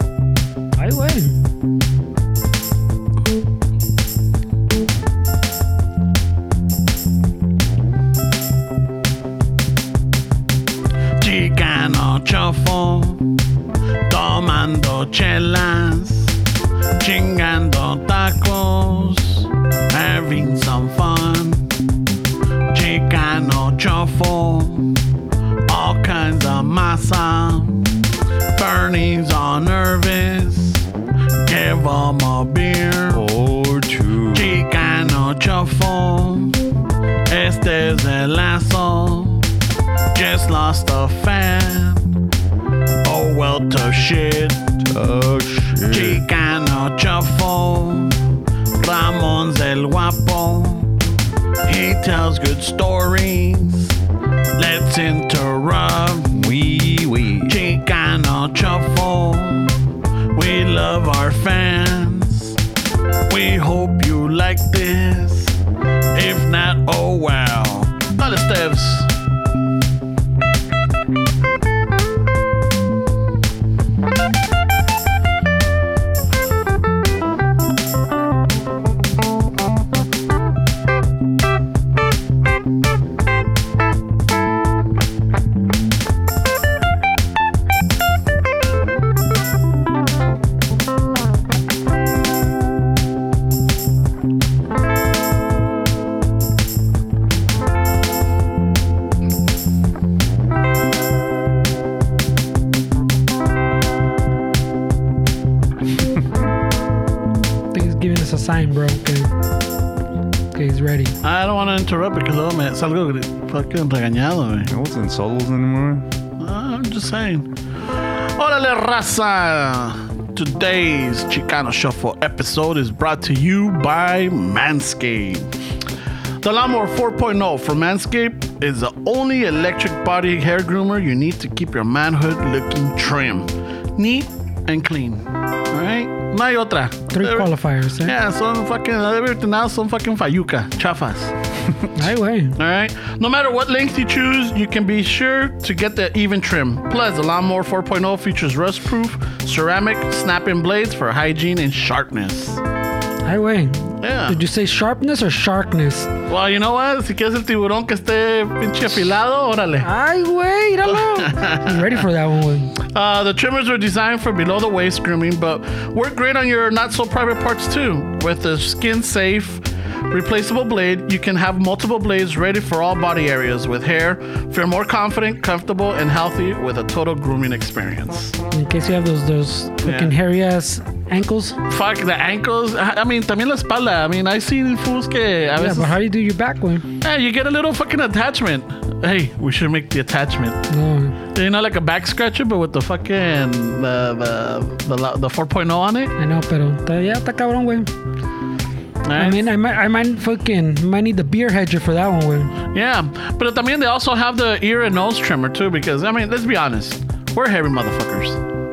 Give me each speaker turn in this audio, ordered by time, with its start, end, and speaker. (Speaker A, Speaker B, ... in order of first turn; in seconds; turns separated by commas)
Speaker A: 0.8-1.4, Speaker B: 11.2-13.3, Speaker B: 14.1-16.4, Speaker B: 17.0-21.7, Speaker B: 22.7-25.1, Speaker B: 25.7-27.9, Speaker B: 28.6-30.9, Speaker B: 31.4-33.2, Speaker C: 33.1-34.6, Speaker B: 34.3-36.6, Speaker B: 37.3-39.5, Speaker B: 40.1-42.2, Speaker B: 43.0-44.6, Speaker C: 44.8-46.2, Speaker B: 45.9-48.2, Speaker B: 48.8-51.0, Speaker B: 51.6-54.0, Speaker B: 54.6-56.4, Speaker C: 56.3-57.6, Speaker B: 57.5-59.8, Speaker B: 60.3-62.6, Speaker B: 63.3-65.6, Speaker B: 66.2-69.1, Speaker A: 107.7-109.3, Speaker A: 110.5-111.2, Speaker B: 111.2-114.7, Speaker C: 114.7-116.0, Speaker B: 116.4-125.5, Speaker B: 126.4-141.3, Speaker A: 137.1-138.2, Speaker A: 141.9-142.6, Speaker B: 142.6-152.6, Speaker A: 153.2-156.1, Speaker B: 154.0-154.4, Speaker B: 156.3-159.9, Speaker A: 159.8-162.7, Speaker B: 160.9-162.0, Speaker B: 162.8-178.4, Speaker A: 178.5-181.6, Speaker B: 179.8-180.1, Speaker B: 181.7-185.9, Speaker A: 185.6-186.9, Speaker B: 187.0-190.7, Speaker A: 190.7-191.2, Speaker B: 191.3-196.1, Speaker A: 196.2-197.9, Speaker B: 199.1-199.4, Speaker A: 199.2-202.6, Speaker B: 202.7-208.4